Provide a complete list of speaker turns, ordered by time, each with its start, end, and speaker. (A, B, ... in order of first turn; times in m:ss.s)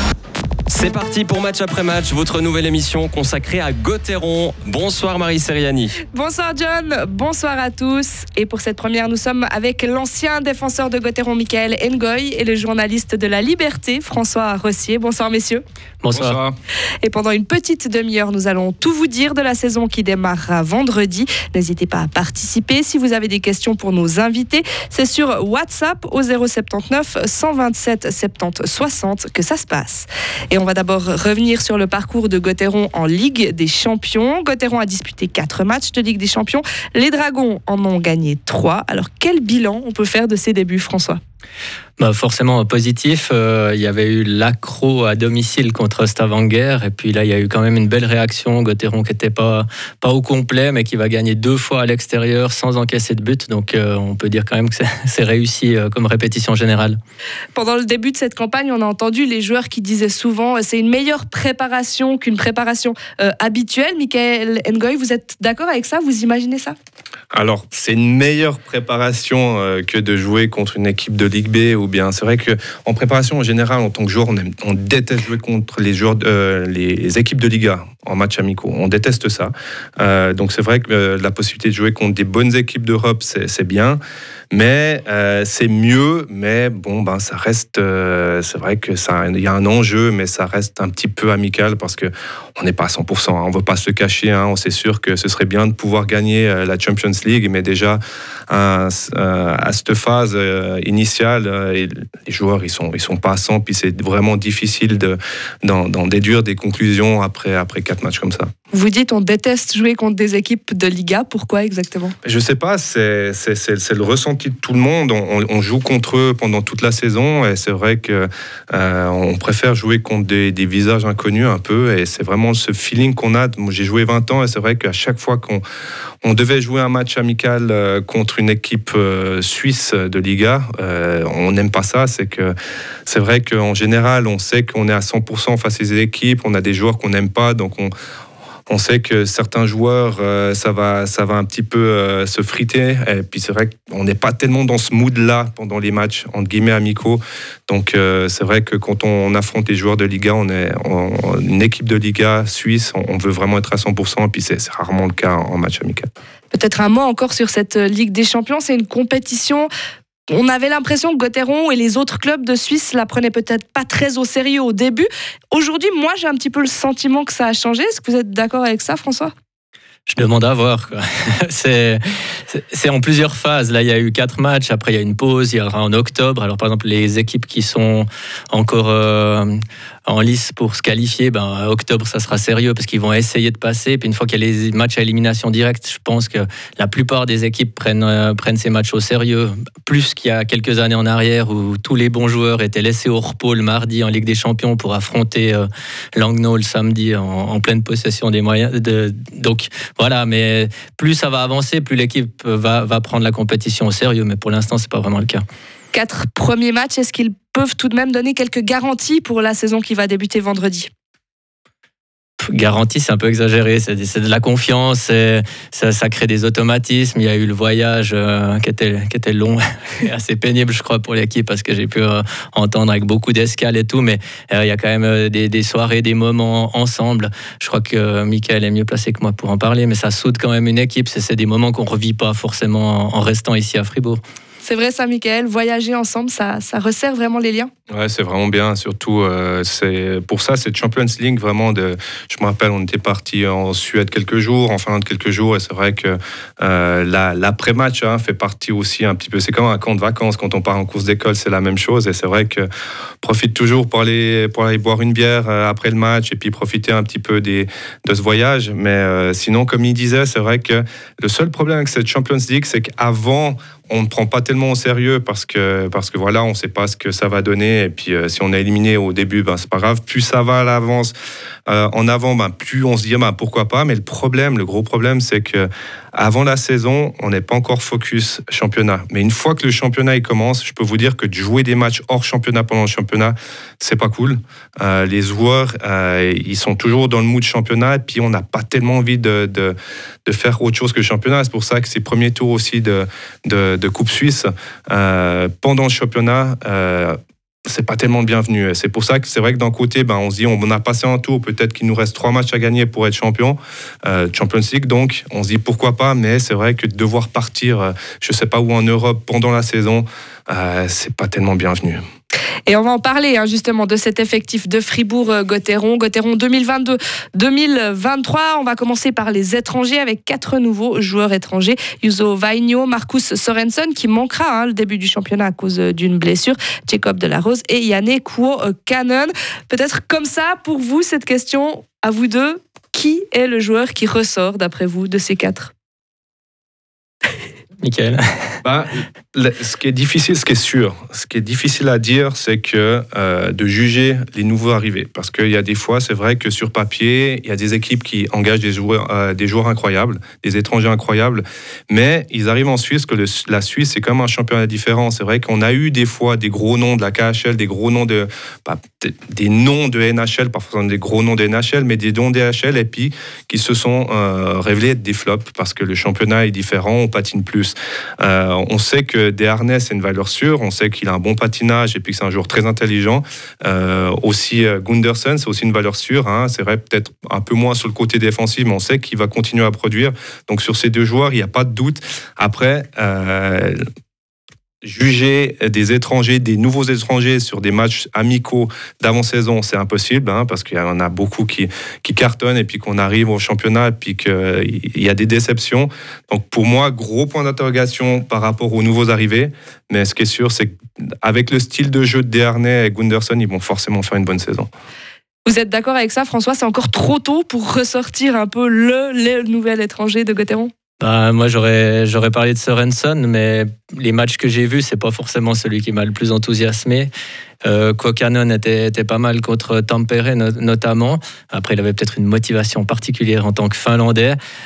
0:00.7-0:06.0 A
0:06.1-0:15.6 B
0:16.0-0:16.4 C
0:16.1-0:16.6 D
0:17.0-0:41.2 B
0:42.0-0:57.0 C
0:57.5-1:06.7 B
1:07.3-1:24.0 D
1:24.5-1:48.5 D
1:48.7-1:52.1 B
1:52.2-2:05.6 D
2:06.2-2:12.5 D
2:13.0-2:17.9 D
2:18.7-2:36.1 D
2:36.5-2:39.7 B
2:40.3-2:49.3 B
2:50.1-3:25.4 C
3:25.9-3:30.9 B
3:32.4-3:54.2 C
3:54.6-3:57.7 B
3:57.9-4:12.7 D
4:13.2-4:31.1 D
4:31.7-4:49.7 D
4:50.2-5:12.0 D
5:12.7-5:35.7 B
5:37.8-5:38.6 C
5:38.6-6:23.8 D
6:24.8-6:44.7 D
6:45.4-6:50.7 B
6:51.0-6:57.1 C
6:57.6-7:04.4 C